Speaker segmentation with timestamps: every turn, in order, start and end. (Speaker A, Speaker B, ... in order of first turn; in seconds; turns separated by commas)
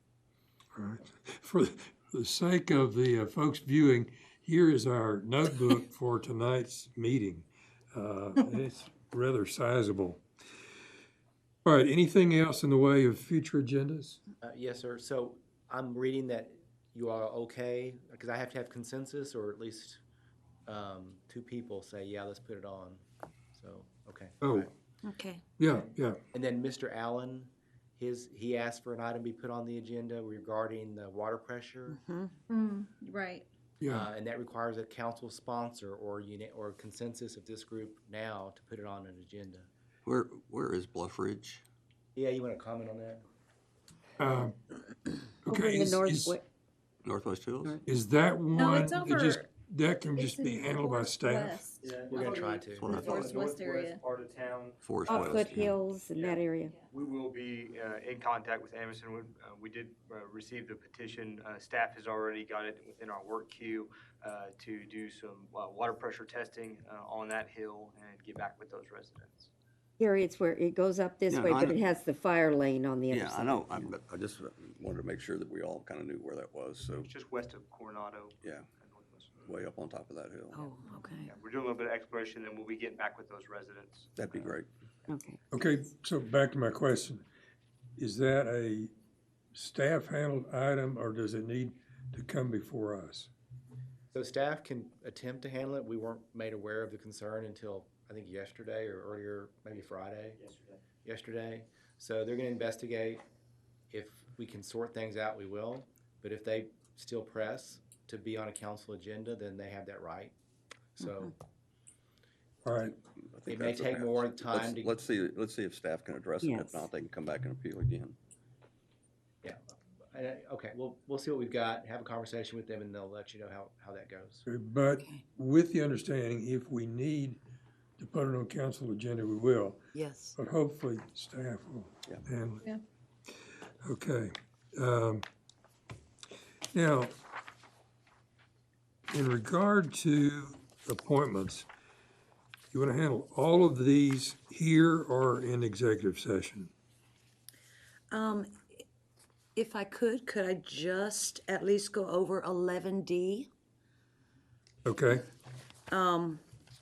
Speaker A: 0.7-10.2, Speaker A: 11.6-14.2, Speaker B: 14.4-20.0, Speaker B: 20.6-23.0, Speaker B: 23.5-24.7, Speaker A: 24.4-24.7, Speaker C: 25.0-25.4, Speaker A: 25.6-26.2, Speaker B: 25.7-32.0, Speaker C: 31.9-32.3, Speaker D: 32.5-33.5, Speaker A: 33.8-34.1, Speaker B: 33.9-39.7, Speaker E: 40.0-41.6, Speaker B: 42.1-43.2, Speaker A: 44.2-44.5, Speaker A: 45.4-46.4, Speaker F: 45.5-46.4, Speaker E: 47.0-47.8, Speaker A: 47.9-51.7, Speaker D: 48.5-49.5, Speaker D: 50.1-54.0, Speaker G: 51.8-54.9, Speaker B: 52.1-52.9, Speaker E: 52.8-53.3, Speaker E: 54.8-55.8, Speaker F: 55.0-56.8, Speaker G: 56.1-69.5, Speaker F: 70.0-73.8, Speaker E: 71.3-71.8, Speaker E: 73.1-77.1, Speaker G: 77.0-79.3, Speaker E: 78.4-78.7, Speaker E: 79.5-80.7, Speaker A: 80.7-81.2, Speaker G: 81.2-84.1, Speaker E: 84.2-84.7, Speaker A: 85.1-87.2, Speaker A: 88.0-88.9, Speaker A: 89.5-93.3, Speaker B: 94.1-100.4, Speaker G: 100.4-100.7, Speaker B: 101.0-103.2, Speaker B: 103.9-110.3, Speaker B: 111.0-111.3, Speaker A: 112.6-112.9, Speaker E: 113.3-118.2, Speaker B: 113.5-114.9, Speaker B: 119.4-124.4, Speaker A: 124.5-127.4, Speaker A: 128.0-129.8, Speaker C: 129.9-130.3, Speaker A: 130.3-132.6, Speaker A: 133.8-135.2, Speaker A: 136.7-137.1, Speaker A: 139.1-141.7, Speaker A: 142.7-146.7, Speaker C: 148.1-148.6, Speaker C: 149.6-153.5, Speaker A: 154.8-155.2, Speaker C: 155.9-156.4